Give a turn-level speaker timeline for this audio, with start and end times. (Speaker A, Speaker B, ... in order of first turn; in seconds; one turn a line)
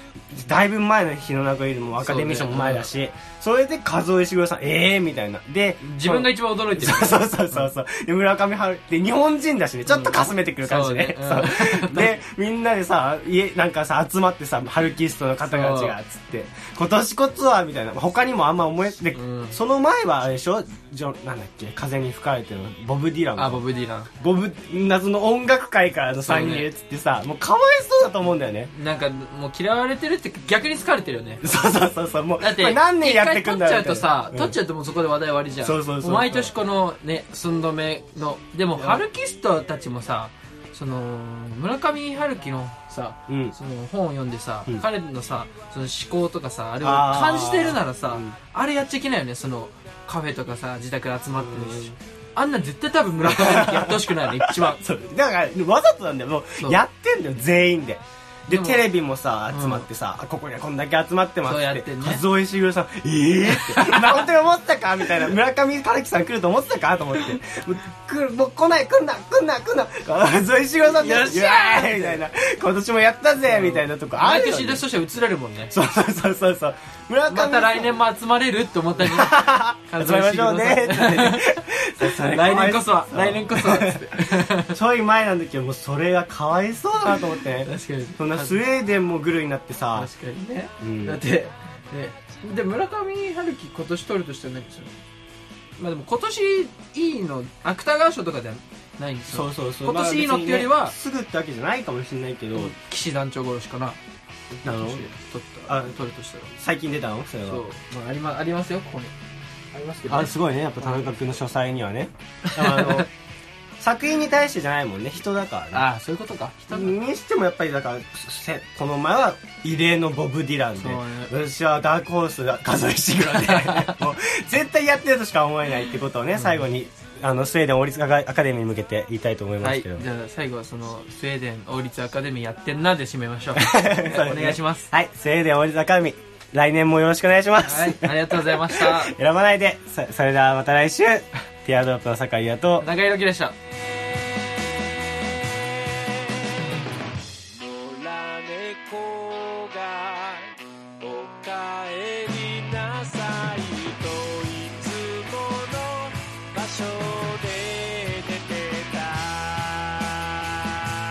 Speaker A: 0.3-23.6
Speaker B: 2.0-2.9
Speaker B: 5.8-7.7
Speaker B: 9.9-12.2
Speaker B: 15.5-15.9
Speaker B: 19.1-19.6
Speaker B: 23.4-24.1
Speaker A: 24.1-28.7
Speaker B: 26.2-26.7
Speaker B: 28.7-31.4
Speaker A: 31.4-34.5
Speaker B: 32.4-54.8
Speaker A: 35.6-36.5
Speaker A: 43.3-43.5
Speaker A: 46.8-48.4
Speaker A: 51.4-51.9
Speaker A: 53.2-74.8
Speaker B: 58.5-58.9
Speaker B: 59.5-59.9
Speaker B: 61.4-62.2
Speaker B: 63.5-64.3
Speaker B: 70.9-72.2
Speaker B: 73.4-75.7
Speaker A: 75.7-78.0
Speaker B: 77.3-84.8
Speaker A: 79.0-90.1
Speaker B: 87.6-88.6
Speaker B: 89.9-95.0
Speaker A: 90.8-91.2
Speaker B: 95.8-100.9
Speaker A: 99.3-102.7
Speaker B: 102.5-104.0
Speaker B: 104.6-106.5
Speaker A: 104.6-105.0
Speaker A: 106.5-107.6
Speaker B: 107.4-109.1
Speaker B: 109.7-111.1
Speaker A: 110.1-113.1
Speaker B: 112.5-113.1
Speaker A: 113.8-115.8
Speaker B: 115.7-116.9
Speaker A: 116.7-130.1
Speaker B: 120.8-121.3
Speaker B: 123.4-123.9
Speaker B: 126.3-126.7
Speaker B: 129.6-134.9
Speaker A: 133.6-142.9
Speaker B: 137.6-139.1
Speaker B: 142.8-143.6
Speaker C: 145.3-146.6
Speaker C: 147.5-160.0